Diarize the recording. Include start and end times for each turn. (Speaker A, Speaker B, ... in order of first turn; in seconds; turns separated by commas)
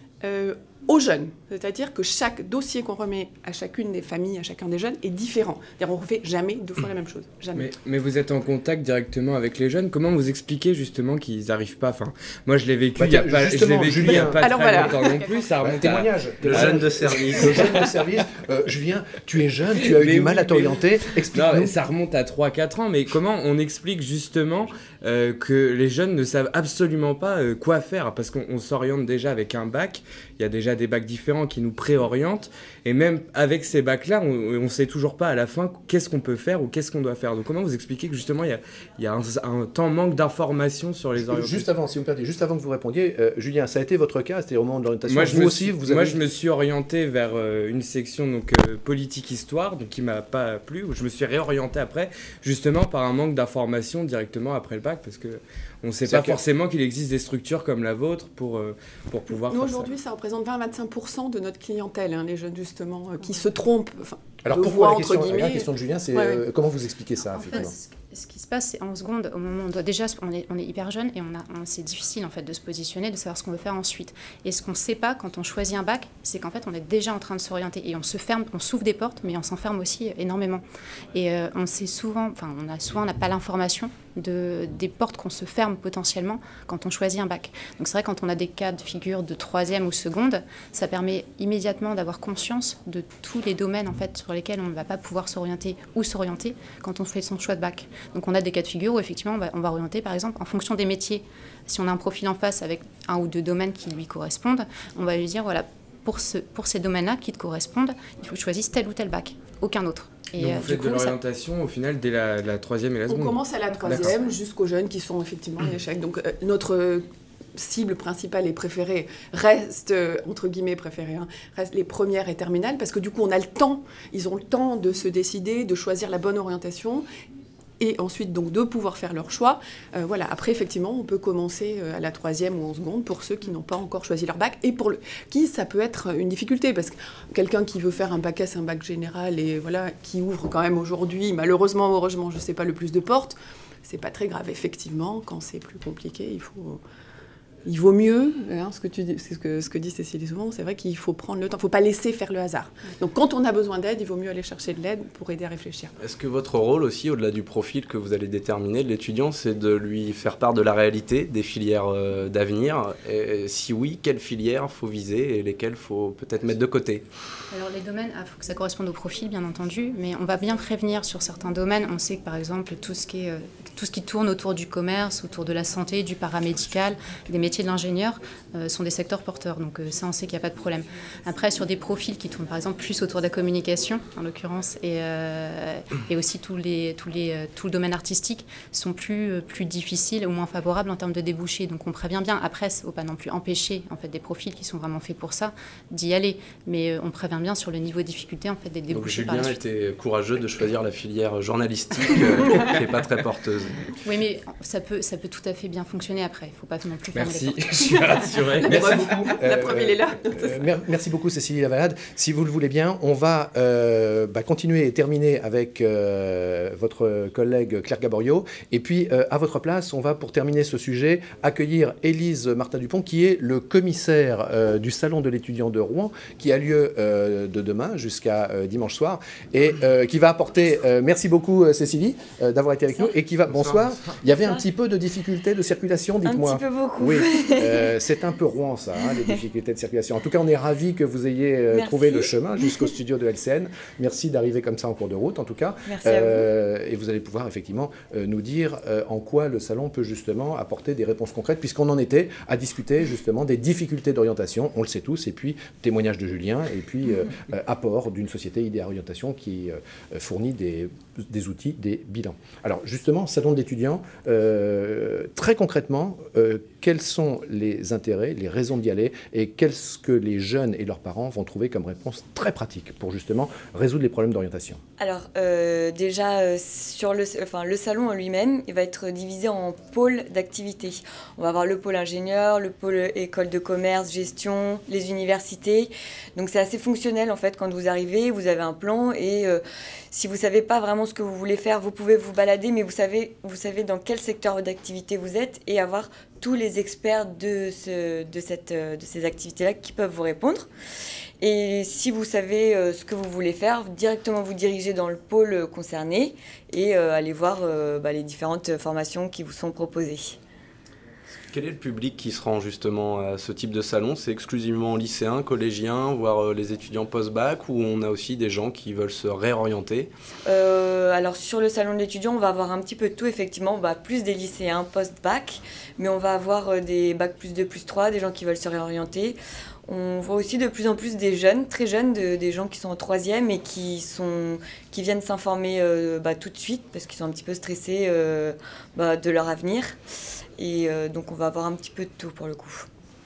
Speaker A: 0.2-7.7, Speaker B: 7.5-17.8, Speaker C: 13.0-14.9, Speaker A: 14.3-15.4, Speaker C: 15.6-21.8, Speaker D: 16.4-17.8, Speaker B: 19.9-20.8, Speaker B: 21.3-41.7, Speaker C: 41.3-46.2, Speaker B: 45.1-59.9, Speaker C: 56.1-56.4, Speaker A: 59.3-66.4, Speaker C: 64.4-67.7, Speaker E: 67.3-80.6, Speaker E: 81.1-111.2, Speaker B: 110.4-114.1, Speaker A: 113.1-117.0, Speaker A: 117.6-127.0, Speaker A: 127.8-146.8, Speaker A: 147.7-155.9, Speaker D: 156.0-167.0, Speaker E: 167.5-199.6, Speaker D: 198.9-203.8, Speaker E: 204.0-208.2, Speaker B: 207.1-208.8, Speaker A: 208.6-210.6, Speaker C: 208.7-274.8, Speaker F: 236.2-237.9, Speaker F: 239.1-239.3, Speaker F: 241.7-242.9, Speaker F: 245.9-246.5, Speaker F: 275.0-300.7, Speaker F: 301.4-310.4, Speaker D: 311.5-320.1, Speaker F: 320.5-340.0, Speaker F: 340.6-342.9